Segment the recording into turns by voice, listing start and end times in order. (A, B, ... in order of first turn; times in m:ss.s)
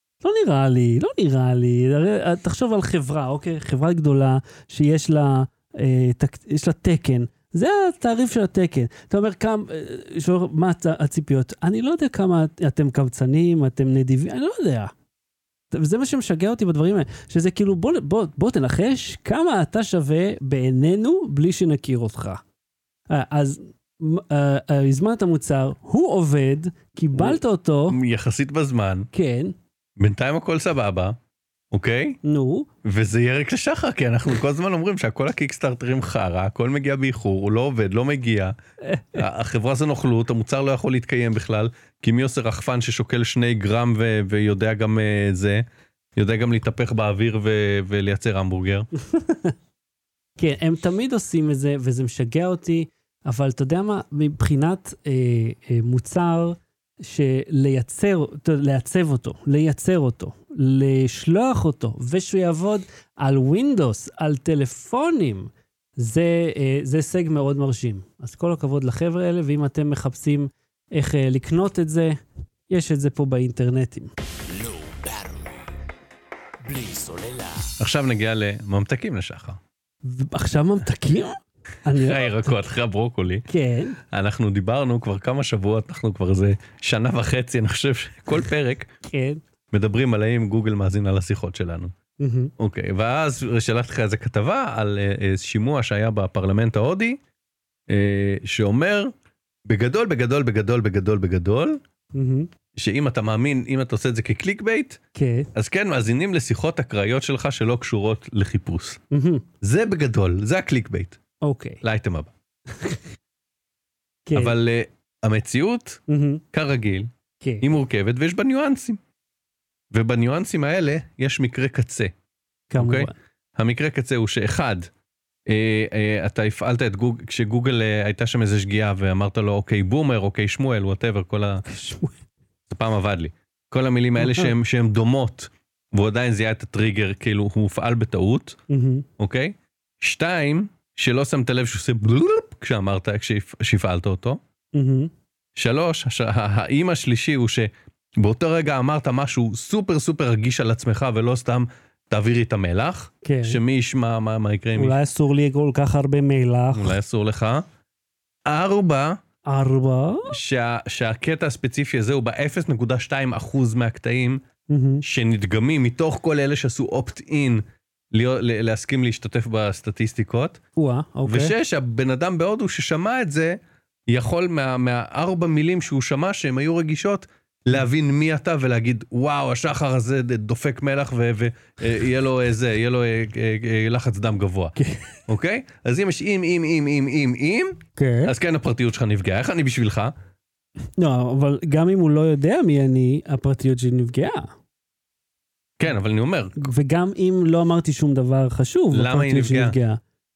0:00.2-0:14.9 A
0:15.7-0:22.4 A
0:23.1-0:28.0 A
0:27.2-0:29.1 B
0:29.1-0:29.6 A
0:30.0-0:31.2 B
0:31.7-0:32.2 B
0:32.2-0:32.7 A
0:32.8-0:38.6 B
0:38.8-0:39.2 A
0:39.1-0:45.6 B
0:46.2-0:48.9 B
0:49.0-0:49.5 A
0:50.4-1:12.2 A
1:12.7-1:14.1 A
1:14.4-1:15.7 C
1:16.6-1:17.8 C
1:17.8-1:19.6 B
1:20.0-1:22.6 A
1:22.0-1:23.5 B
1:23.5-1:24.0 A
1:24.1-1:28.9 B
1:29.1-1:29.4 A
1:29.7-1:31.9 B
1:32.2-1:32.5 A
1:32.6-1:37.2 B
1:37.9-1:39.1 B
1:39.7-1:41.8 B
1:42.1-1:42.5 A
1:42.8-1:45.0 B
1:45.1-1:45.5 A
1:45.5-1:49.0 B
1:49.1-1:49.4 A
1:49.6-1:51.2 B
1:51.4-1:51.8 A
1:51.8-1:52.3 B
1:52.8-1:53.0 A
1:54.3-1:54.6 A
1:54.4-1:56.0 B
1:56.1-1:56.4 A
1:56.5-1:57.1 B
1:57.4-1:57.7 A
1:57.6-1:59.0 B
1:59.9-2:02.1 B
2:02.7-2:03.2 A
2:02.8-2:04.9 B
2:05.5-2:11.6 B
2:11.6-2:12.2 A
2:12.7-2:18.6 B
2:14.2-2:14.5 A
2:18.7-2:19.1 A
2:19.2-2:24.4 B
2:24.7-2:25.1 A
2:25.6-2:35.0 B
2:33.2-2:33.6 A
2:34.8-2:37.0 A
2:36.7-2:37.6 B
2:38.5-2:39.2 B
2:39.5-2:40.4 A
2:40.3-2:44.4 B
2:44.7-2:45.0 A
2:45.0-2:50.6 B
2:50.8-2:51.5 A
2:51.3-2:53.6 B
2:54.1-3:04.7 B
3:04.8-3:05.1 A
3:05.3-3:10.1 B
3:08.0-3:08.3 A
3:11.0-3:14.5 A
3:15.8-3:16.7 B
3:16.6-3:20.0 A
3:18.9-3:19.8 B